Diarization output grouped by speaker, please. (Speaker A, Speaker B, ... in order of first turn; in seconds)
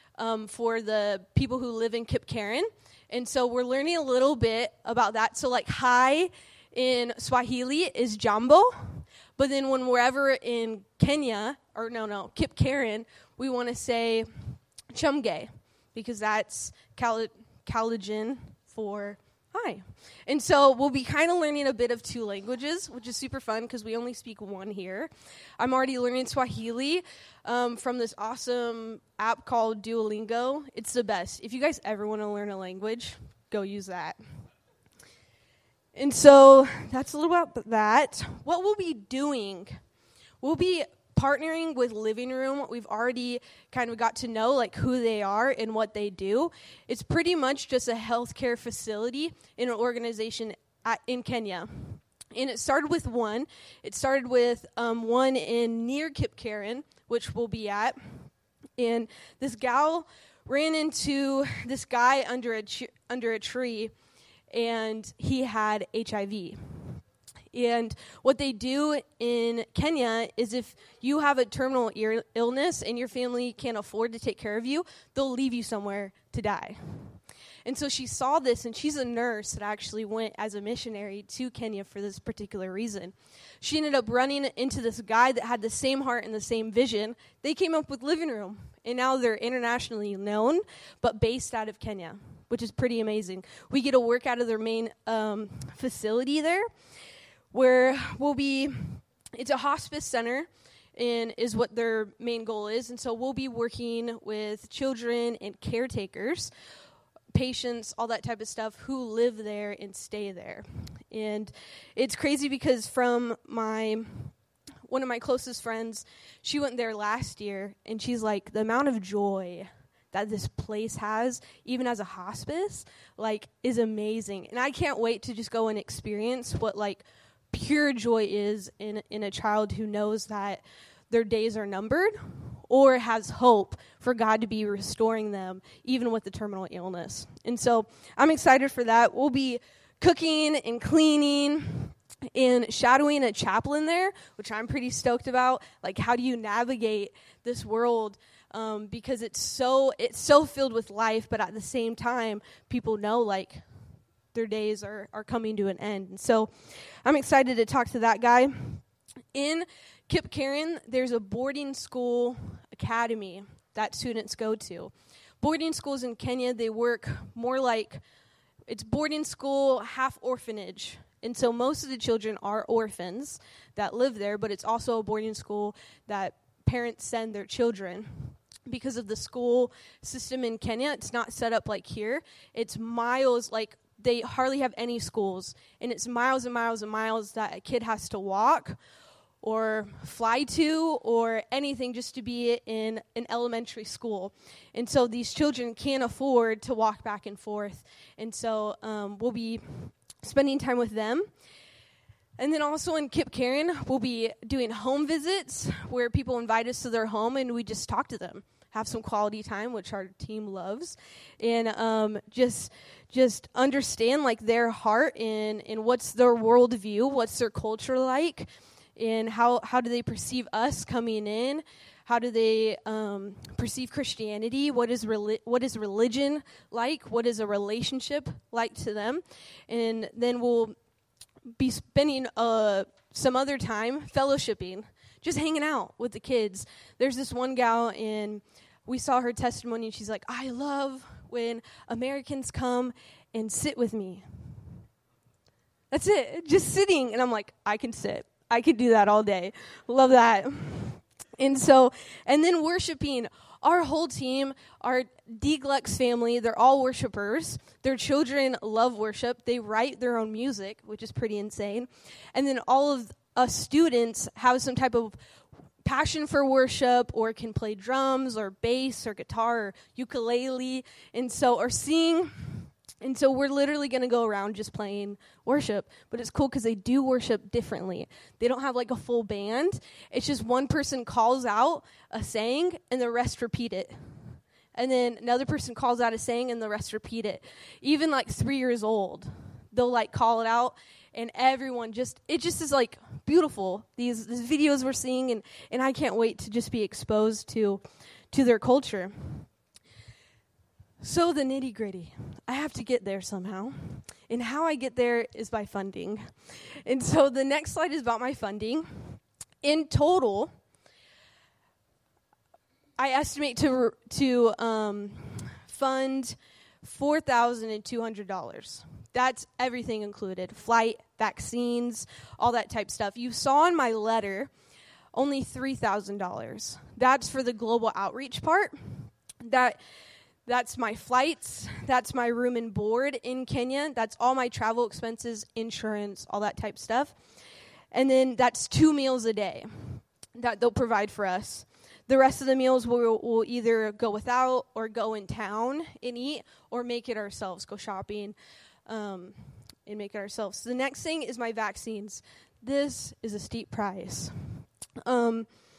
Speaker A: 0.2-34.2, 36.0-39.8, 40.4-58.3, 58.8-63.9, 64.5-67.0, 67.5-96.7, 97.5-106.5, 107.3-114.3, 114.9-153.6, 154.3-156.5, 157.0-158.8, 159.3-168.0, 168.7-188.8, 189.4-201.3, 202.4-230.8, 231.6-244.3, 245.9-265.2, 265.9-284.0, 284.8-297.8, 298.3-299.5, 301.0-310.5, 313.0-324.5, 325.1-329.8, 330.5-337.1, 337.9-355.5